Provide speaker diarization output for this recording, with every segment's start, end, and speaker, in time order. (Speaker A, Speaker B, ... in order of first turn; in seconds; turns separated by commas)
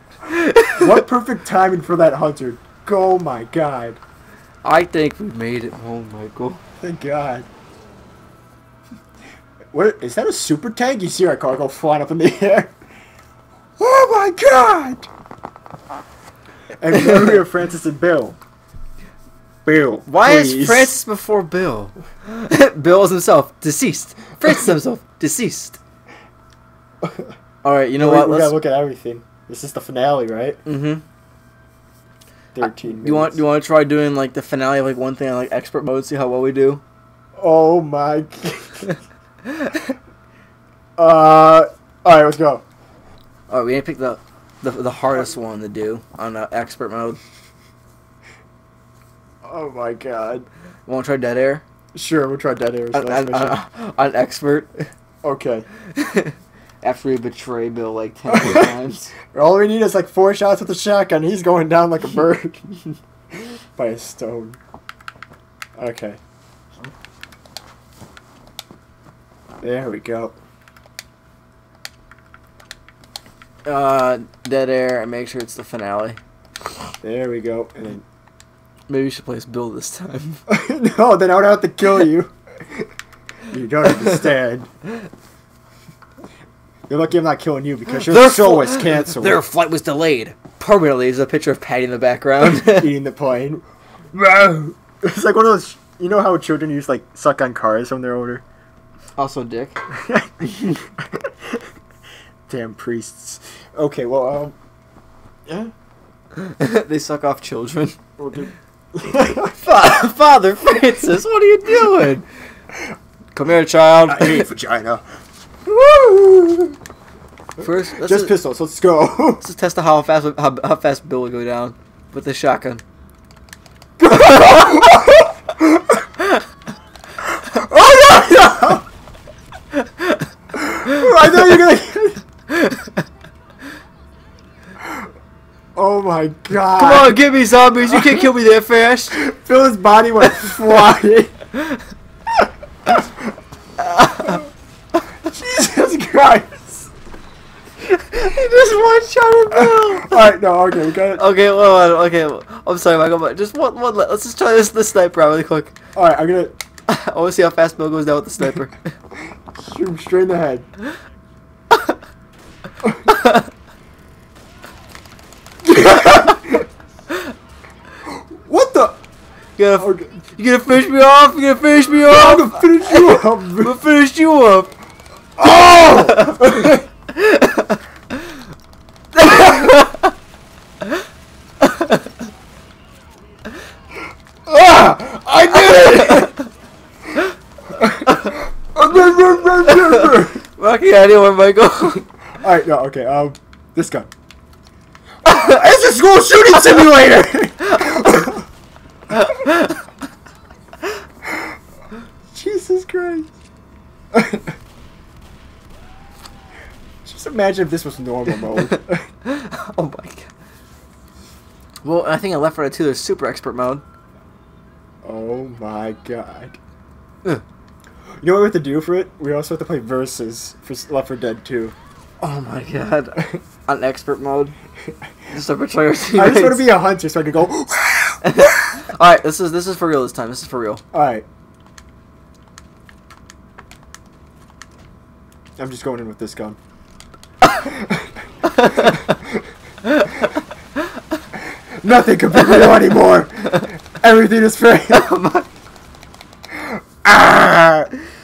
Speaker A: 0.3-0.9, Speaker B: 0.7-4.0, Speaker A: 4.6-6.6, Speaker B: 6.8-7.5, Speaker B: 9.7-12.7, Speaker B: 13.8-15.1, Speaker B: 16.8-18.4, Speaker A: 17.0-17.4, Speaker B: 19.6-21.0, Speaker A: 20.1-25.8, Speaker B: 27.0-27.3, Speaker A: 27.6-28.5, Speaker B: 27.9-30.6, Speaker A: 30.6-31.0, Speaker B: 32.5-33.4, Speaker A: 32.6-36.8, Speaker B: 37.4-38.9, Speaker B: 41.0-42.6, Speaker A: 43.5-47.2, Speaker B: 49.4-50.5, Speaker A: 50.9-51.6, Speaker B: 51.9-53.6, Speaker A: 52.9-54.8, Speaker B: 55.2-55.7, Speaker A: 55.9-59.1, Speaker B: 58.3-58.7, Speaker B: 59.3-64.6, Speaker B: 65.8-66.2, Speaker B: 69.6-70.3, Speaker A: 73.7-76.2, Speaker B: 77.0-78.0, Speaker A: 78.9-80.4, Speaker B: 80.5-82.9, Speaker B: 83.5-84.7, Speaker B: 86.9-89.4, Speaker A: 87.9-92.9, Speaker B: 92.4-98.4, Speaker A: 99.2-99.8, Speaker B: 99.9-101.6, Speaker B: 102.5-104.5, Speaker B: 105.5-105.7, Speaker A: 106.5-108.0, Speaker B: 108.2-110.0, Speaker A: 109.6-112.2, Speaker A: 113.3-114.5, Speaker B: 114.1-115.0, Speaker B: 115.7-116.8, Speaker A: 117.6-118.4, Speaker B: 117.9-119.4, Speaker A: 119.4-122.8, Speaker A: 124.0-125.1, Speaker B: 124.0-125.8, Speaker B: 127.2-128.8, Speaker A: 129.7-130.2, Speaker B: 130.5-132.2, Speaker A: 130.9-131.6, Speaker A: 132.5-133.0, Speaker B: 135.8-137.2, Speaker A: 136.7-139.2, Speaker B: 137.8-138.3, Speaker B: 139.1-141.3, Speaker A: 143.8-144.4, Speaker B: 145.3-146.7, Speaker A: 147.8-150.3, Speaker B: 149.5-151.2, Speaker A: 151.1-155.8, Speaker B: 155.9-156.5, Speaker A: 156.9-158.9, Speaker B: 159.6-160.7, Speaker A: 163.1-163.4, Speaker B: 165.7-166.6, Speaker B: 168.4-169.0, Speaker A: 169.6-174.7, Speaker B: 169.8-170.2, Speaker B: 172.0-173.8, Speaker B: 175.4-176.8, Speaker A: 175.4-177.8, Speaker A: 179.1-180.1, Speaker A: 181.6-182.0, Speaker B: 184.5-186.3, Speaker A: 185.7-186.4, Speaker B: 187.8-190.4, Speaker A: 187.8-188.3, Speaker A: 189.7-190.0, Speaker A: 190.6-192.0, Speaker B: 192.4-194.1, Speaker B: 195.2-198.4, Speaker A: 195.3-195.6, Speaker A: 196.6-196.9, Speaker A: 197.7-198.3, Speaker A: 199.1-199.8, Speaker B: 202.3-203.3, Speaker B: 204.1-204.5, Speaker B: 207.0-209.0, Speaker A: 209.2-210.3, Speaker A: 211.8-213.8, Speaker B: 215.0-216.6, Speaker B: 218.2-221.7, Speaker A: 222.2-224.5, Speaker A: 225.3-226.7, Speaker B: 226.1-228.5, Speaker A: 228.2-230.8, Speaker B: 230.9-231.2, Speaker B: 235.6-236.6, Speaker B: 237.6-238.1, Speaker A: 238.6-239.0, Speaker B: 238.8-239.3, Speaker A: 239.9-240.2, Speaker B: 241.8-245.0, Speaker A: 244.9-245.5, Speaker B: 246.5-247.9